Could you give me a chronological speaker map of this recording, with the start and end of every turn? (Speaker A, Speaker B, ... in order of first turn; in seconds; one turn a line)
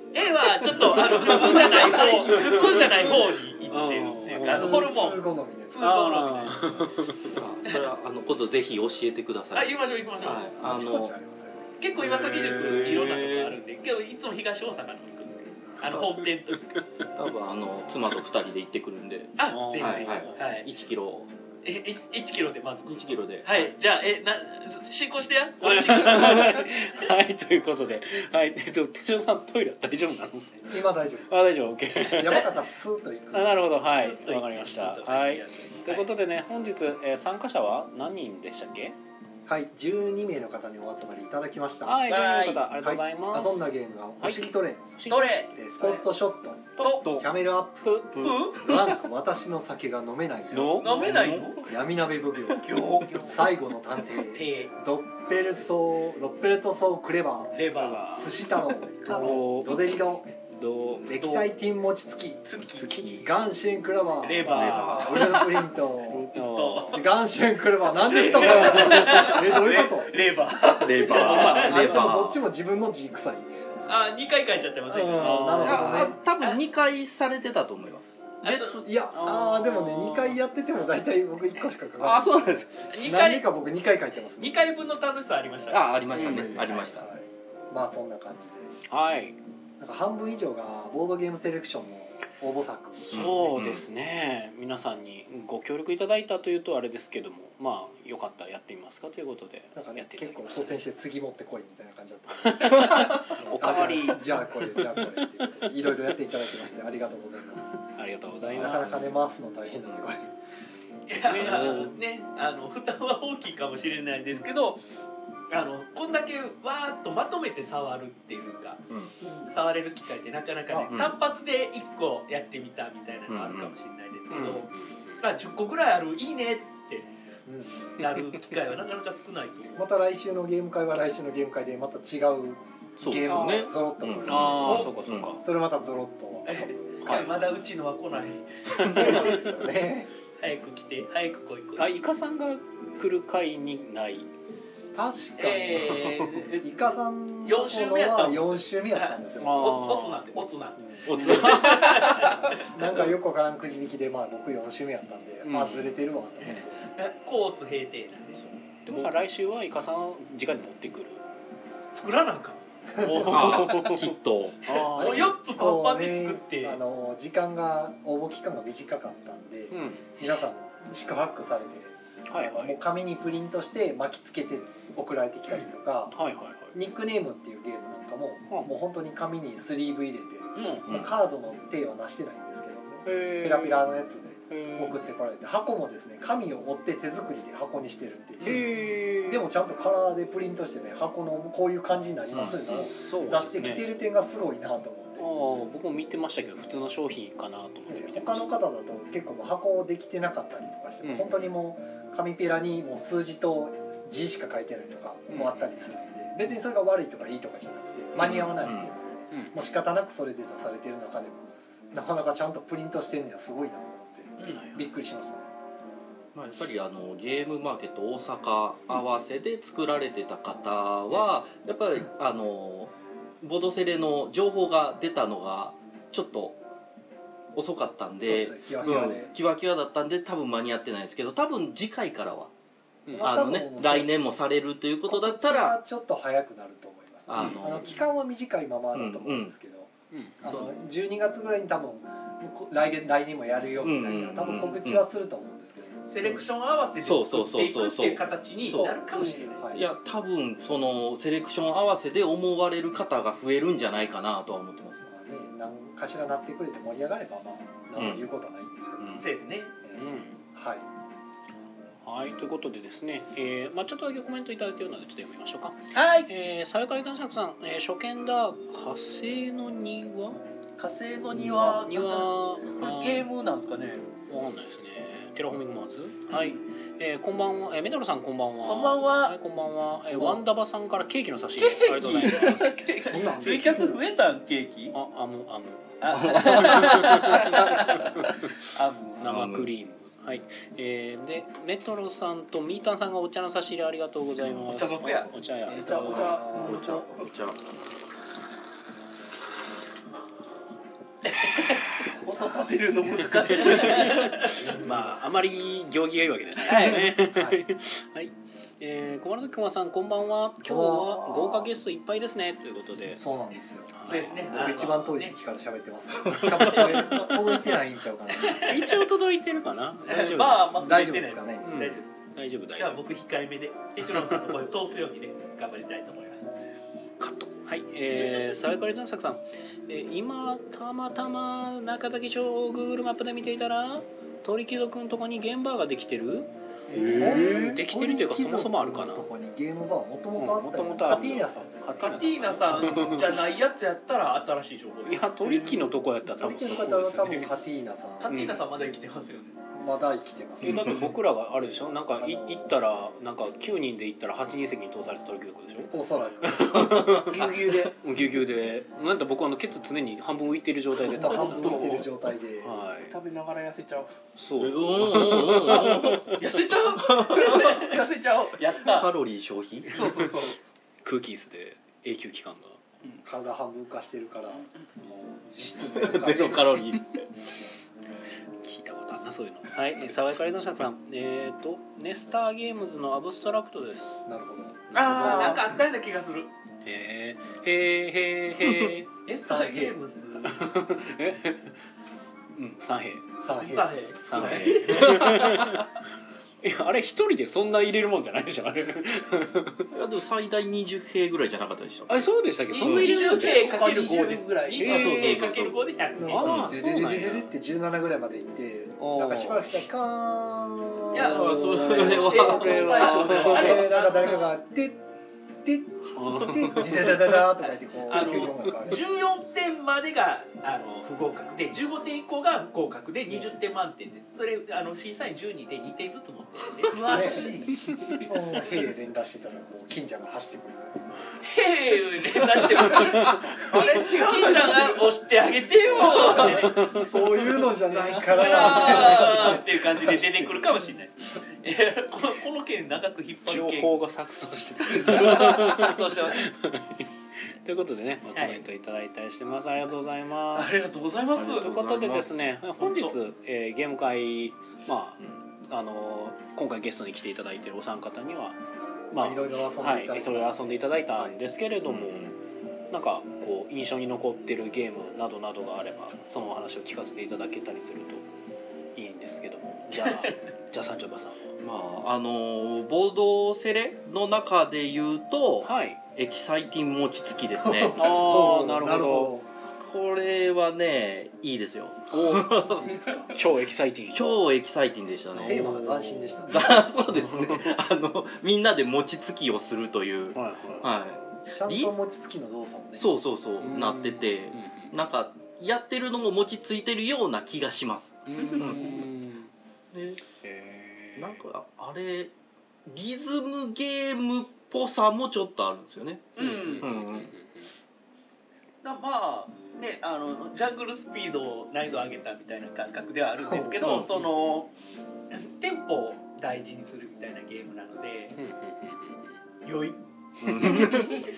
Speaker A: 0.1-6.9
Speaker B: 0.6-3.1
Speaker C: 1.4-2.1
Speaker D: 1.7-2.9
Speaker B: 3.7-4.8
Speaker D: 4.4-5.8
Speaker B: 5.8-7.4
Speaker C: 7.3-11.1
Speaker A: 9.5-10.4
Speaker D: 10.6-11.7
Speaker A: 11.8-16.7
Speaker B: 12.0-13.0
Speaker C: 12.5-13.5
Speaker C: 15.9-16.2
Speaker C: 17.1-21.3
Speaker A: 19.4-20.7
Speaker B: 19.5-20.4
Speaker A: 21.6-26.9
Speaker C: 22.9-23.7
Speaker B: 25.6-30.7
Speaker D: 30.7-31.4
Speaker B: 31.3-32.5
Speaker D: 32.1-33.6
Speaker A: 32.3-32.5
Speaker B: 33.3-39.0
Speaker A: 33.8-36.1
Speaker D: 39.5-42.0
Speaker B: 41.9-45.2
Speaker A: 42.1-42.6
Speaker D: 42.8-44.9
Speaker A: 45.1-46.0
Speaker D: 45.5-60.3
Speaker A: 46.8-47.1
Speaker B: 46.8-47.2
Speaker C: 48.1-48.5
Speaker A: 48.2-48.9
Speaker B: 50.5-51.0
Speaker A: 50.8-51.7
Speaker C: 50.9-51.6
Speaker A: 52.6-53.5
Speaker A: 54.1-54.7
Speaker A: 57.5-58.3
Speaker B: 57.7-58.3
Speaker B: 59.0-60.0
Speaker B: 60.6-61.1
Speaker D: 61.0-66.3
Speaker A: 61.1-61.5
Speaker A: 62.4-63.0
Speaker B: 62.7-63.3
Speaker A: 64.2-65.7
Speaker C: 64.4-65.1
Speaker B: 64.5-65.3
Speaker B: 66.0-67.0
Speaker A: 66.3-67.0
Speaker D: 66.9-70.2
Speaker A: 67.9-72.0
Speaker B: 68.7-69.3
Speaker C: 70.8-72.4
Speaker B: 71.1-72.1
Speaker D: 71.2-73.5
Speaker A: 73.8-76.6
Speaker D: 74.9-76.2
Speaker C: 75.6-78.9
Speaker A: 78.4-78.8
Speaker D: 78.8-84.6
Speaker B: 79.1-80.4
Speaker C: 82.0-82.9
Speaker A: 82.9-83.4
Speaker A: 84.4-86.8
Speaker C: 85.7-87.1
Speaker B: 86.1-86.7
Speaker D: 86.6-88.7
Speaker B: 88.9-89.3
Speaker D: 89.8-93.5
Speaker B: 93.0-100.8
Speaker C: 93.1-93.8
Speaker D: 99.7-107.7
Speaker B: 102.4-105.7
Speaker C: 102.8-103.3
Speaker B: 107.8-109.1
Speaker D: 108.5-110.3
Speaker A: 111.1-114.8
Speaker B: 111.1-112.0
Speaker A: 115.5-124.7
Speaker D: 120.7-121.1
Speaker C: 123.3-123.7
Speaker B: 124.3-125.2
Speaker A: 125.2-127.1
Speaker D: 127.5-127.9
Speaker A: 127.9-129.8
Speaker D: 129.8-137.3
Speaker C: 133.0-135.3
Speaker B: 134.2-135.4
Speaker A: 136.4-139.5
Speaker C: 137.0-137.3
Speaker B: 137.1-137.6
Speaker D: 138.8-140.1
Speaker B: 138.8-139.2
Speaker A: 140.4-141.9
Speaker B: 141.8-144.3
Speaker D: 144.9-149.8
Speaker A: 145.4-146.8
Speaker A: 147.4-153.1
Speaker B: 149.4-150.3
Speaker D: 150.8-151.1
Speaker C: 151.1-152.2
Speaker D: 152.5-156.9
Speaker B: 155.4-156.0
Speaker A: 156.4-158.5
Speaker B: 158.8-161.2
Speaker C: 158.9-159.2
Speaker A: 161.9-162.6
Speaker D: 162.9-163.7
Speaker B: 163.0-165.3
Speaker C: 163.1-165.2
Speaker A: 164.9-166.8
Speaker D: 165.1-176.2
Speaker B: 169.7-170.1
Speaker B: 172.3-172.8
Speaker B: 176.1-176.7
Speaker D: 176.7-195.3
Speaker B: 178.5-178.7
Speaker B: 180.6-180.9
Speaker B: 183.0-183.9
Speaker B: 184.5-185.0
Speaker B: 188.4-189.4
Speaker C: 192.3-192.7
Speaker B: 192.4-193.8
Speaker B: 195.2-198.5
Speaker D: 197.9-215.5
Speaker B: 201.0-201.5
Speaker B: 205.3-206.1
Speaker C: 208.1-208.9
Speaker B: 214.4-214.9
Speaker C: 216.3-226.6
Speaker C: 227.5-232.5
Speaker D: 228.2-229.3
Speaker B: 233.1-233.4
Speaker D: 233.1-234.1
Speaker C: 233.2-235.8
Speaker D: 235.1-239.9
Speaker C: 237.3-238.0
Speaker B: 237.4-238.0
Speaker C: 238.9-239.5
Speaker B: 240.1-240.4
Speaker D: 240.4-246.3
Speaker C: 243.8-245.0
Speaker A: 246.1-249.6
Speaker C: 247.0-249.1
Speaker D: 248.6-249.9
Speaker C: 249.7-255.0
Speaker D: 255.0-259.3
Speaker C: 258.0-258.3
Speaker A: 259.2-259.7
Speaker D: 259.8-260.9
Speaker B: 260.0-260.4
Speaker B: 262.0-270.4
Speaker A: 265.9-266.3
Speaker A: 270.8-274.1
Speaker B: 271.3-273.3
Speaker B: 274.3-282.8
Speaker A: 278.6-279.3
Speaker D: 280.1-280.4
Speaker A: 281.6-284.9
Speaker D: 283.0-284.0
Speaker B: 284.9-288.4
Speaker A: 286.0-289.3
Speaker C: 286.1-287.9
Speaker B: 289.2-296.7
Speaker C: 289.2-289.7
Speaker A: 294.7-295.3
Speaker E: 295.6-297.2
Speaker D: 296.2-296.9
Speaker C: 296.3-297.6
Speaker E: 302.1-304.3
Speaker B: 303.4-313.2
Speaker A: 303.7-304.6
Speaker D: 304.5-305.1
Speaker A: 306.6-307.1
Speaker C: 306.7-307.1
Speaker D: 307.2-307.6
Speaker D: 310.6-311.7
Speaker D: 313.1-318.7
Speaker B: 313.9-314.5
Speaker A: 314.1-315.3
Speaker C: 316.3-316.9
Speaker A: 316.6-317.1
Speaker A: 318.4-319.1
Speaker B: 318.5-320.7
Speaker A: 320.0-322.1
Speaker D: 320.7-321.7
Speaker B: 321.6-323.0
Speaker A: 322.8-326.4
Speaker B: 324.1-324.5
Speaker B: 327.2-339.3
Speaker A: 328.1-328.6
Speaker D: 336.9-343.0
Speaker B: 340.4-343.2
Speaker A: 342.0-345.3
Speaker B: 345.1-347.5
Speaker D: 346.3-348.4
Speaker A: 348.2-349.5
Speaker B: 348.3-348.6
Speaker D: 349.7-351.1
Speaker B: 350.6-362.1
Speaker D: 352.2-352.7
Speaker D: 355.9-357.1
Speaker C: 356.7-357.4
Speaker E: 357.2-357.9
Speaker D: 361.1-362.8
Speaker E: 361.4-362.1
Speaker B: 362.6-363.2
Speaker E: 363.1-364.1
Speaker B: 364.4-366.4
Speaker C: 364.6-367.9
Speaker E: 366.4-368.9
Speaker A: 366.4-368.0
Speaker A: 368.6-369.1
Speaker C: 368.8-370.1
Speaker E: 369.9-370.6
Speaker B: 369.9-370.5
Speaker B: 371.0-372.8
Speaker D: 373.2-376.8
Speaker C: 375.9-377.2
Speaker B: 378.6-384.2
Speaker D: 384.2-385.8
Speaker A: 384.9-386.5
Speaker B: 386.8-389.1
Speaker A: 389.2-390.6
Speaker D: 389.4-389.9
Speaker B: 390.4-391.7
Speaker B: 392.6-393.3
Speaker D: 393.4-394.4
Speaker A: 393.6-395.7
Speaker B: 394.2-396.0
Speaker C: 394.4-395.5
Speaker B: 396.6-399.9
Speaker C: 399.9-402.3
Speaker B: 402.1-403.7
Speaker E: 402.7-404.9
Speaker A: 402.8-406.7
Speaker C: 402.8-403.1
Speaker B: 404.8-405.4
Speaker C: 404.8-405.8
Speaker D: 406.2-415.0
Speaker B: 406.3-407.5
Speaker B: 409.0-409.7
Speaker A: 411.1-414.6
Speaker C: 411.2-412.8
Speaker B: 411.5-413.8
Speaker E: 412.3-413.9
Speaker D: 415.6-419.0
Speaker B: 416.1-417.2
Speaker A: 417.4-427.5
Speaker E: 426.8-428.2
Speaker D: 427.1-427.6
Speaker D: 428.2-431.1
Speaker A: 431.4-436.9
Speaker E: 433.0-435.1
Speaker D: 433.7-434.0
Speaker E: 436.0-436.5
Speaker B: 436.6-437.1
Speaker D: 436.7-440.9
Speaker E: 438.2-439.1
Speaker A: 438.2-444.0
Speaker B: 443.4-447.1
Speaker A: 444.9-446.4
Speaker B: 447.6-450.7
Speaker A: 448.3-448.6
Speaker A: 450.5-451.7
Speaker C: 451.3-452.4
Speaker B: 451.5-458.6
Speaker A: 452.8-453.1
Speaker B: 459.1-462.3
Speaker D: 459.1-461.4
Speaker C: 461.8-462.4
Speaker B: 462.9-468.3
Speaker B: 468.9-471.5
Speaker C: 471.6-478.1
Speaker B: 475.6-476.0
Speaker D: 477.6-479.5
Speaker B: 477.9-479.3
Speaker C: 479.8-483.2
Speaker B: 482.1-482.6
Speaker D: 482.6-483.4
Speaker B: 483.3-484.4
Speaker C: 484.1-485.7
Speaker B: 485.3-487.8
Speaker D: 485.3-486.8
Speaker C: 486.5-492.0
Speaker B: 490.3-490.9
Speaker D: 491.5-493.1
Speaker C: 493.0-499.1
Speaker B: 493.6-495.0
Speaker B: 498.3-499.5
Speaker C: 499.9-500.2
Speaker B: 500.4-501.4
Speaker C: 501.1-502.3
Speaker C: 502.9-507.3
Speaker A: 506.4-506.9
Speaker B: 506.4-507.7
Speaker A: 508.8-514.7
Speaker D: 513.4-513.8
Speaker C: 513.8-514.1
Speaker A: 515.3-518.4
Speaker B: 518.4-519.4
Speaker A: 519.6-521.0
Speaker B: 520.4-521.0
Speaker C: 520.4-521.2